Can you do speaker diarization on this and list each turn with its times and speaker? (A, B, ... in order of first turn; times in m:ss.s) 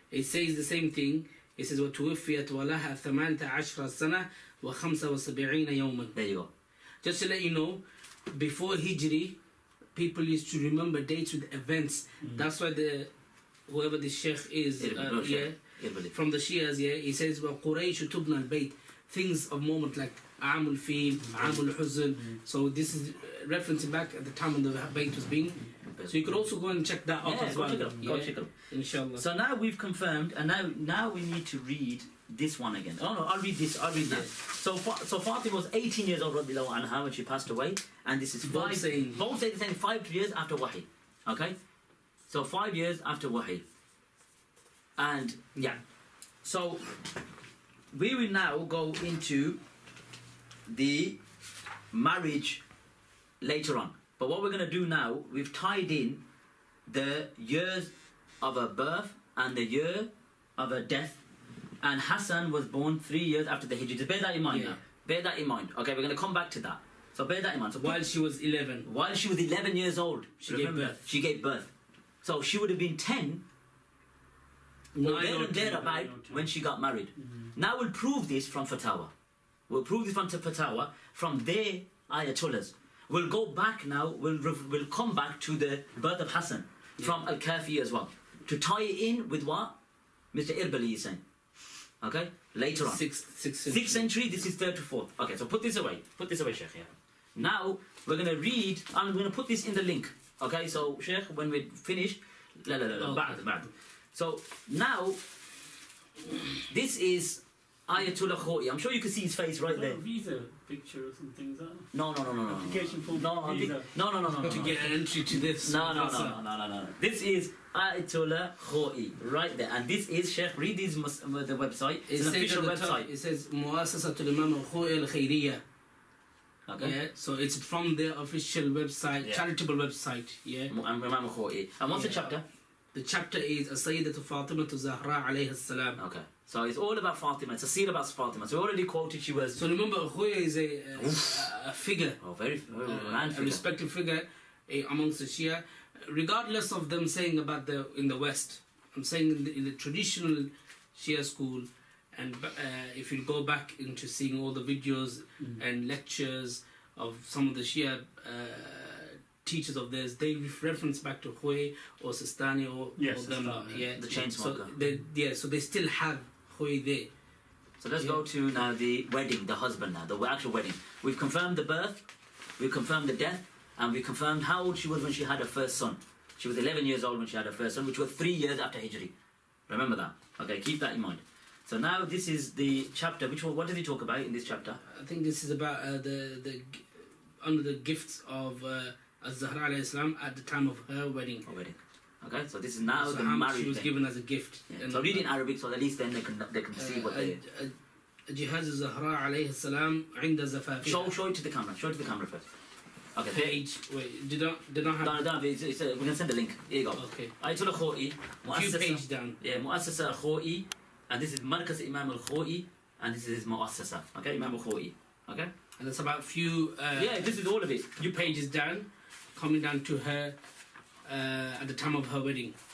0:00.1-0:06.1 A
0:06.1-0:06.5 B
0:07.0-0:09.4 A
0:09.9-0:13.1 A
0:12.2-0:12.4 C
0:13.7-0:15.6 A
0:14.8-0:16.1 B
0:16.1-0:29.2 A
0:21.2-0:21.6 C
0:22.1-0:22.4 C
0:25.9-0:26.5 B
0:27.2-0:28.5 B
0:29.2-0:41.5 B
0:38.4-0:39.2 A
0:42.3-0:43.6 B
0:45.0-0:45.8 B
0:46.4-0:46.9 B
0:47.9-0:49.6 B
0:50.7-0:51.2 B
0:51.9-0:52.6 B
0:53.4-0:56.2 B
0:56.9-1:01.2 B
1:01.8-1:08.0 B
1:04.5-1:04.8 A
1:07.8-1:08.8 A
1:08.8-1:11.7 B
1:10.4-1:11.0 A
1:12.2-1:13.4 B
1:14.9-1:16.0 A
1:15.0-1:19.1 B
1:15.8-1:16.5 C
1:17.2-1:17.5 C
1:19.7-1:29.7 B
1:30.3-1:31.2 B
1:32.0-1:33.0 B
1:32.7-1:34.1 A
1:33.7-1:45.2 B
1:43.0-1:43.4 A
1:46.7-1:50.0 B
1:49.7-1:51.9 C
1:51.9-1:54.9 B
1:52.5-1:53.9 C
1:54.4-1:56.4 A
1:55.6-2:03.1 B
2:02.1-2:05.6 A
2:06.7-2:07.0 B
2:06.8-2:10.7 A
2:10.7-2:12.4 B
2:11.9-2:12.3 A
2:12.9-2:16.0 A
2:16.0-2:19.6 B
2:19.6-2:22.2 A
2:21.0-2:21.5 B
2:22.2-2:23.6 B
2:22.8-2:47.1 A
2:43.0-2:43.9 C
2:43.9-2:44.7 B
2:47.8-2:52.1 B
2:52.6-2:59.1 B
2:59.7-3:04.8 B
3:04.9-3:11.5 A
3:11.4-3:13.9 B
3:12.9-3:15.3 A
3:14.7-3:17.4 B
3:16.8-3:17.7 A
3:18.3-3:21.1 A
3:20.8-3:22.4 B
3:23.1-3:23.6 B
3:23.3-3:25.2 A
3:25.0-3:35.5 B
3:27.0-3:27.3 A
3:28.5-3:29.4 A
3:35.8-3:37.3 A
3:36.9-3:38.3 B
3:38.0-3:40.3 A
3:41.0-3:42.5 A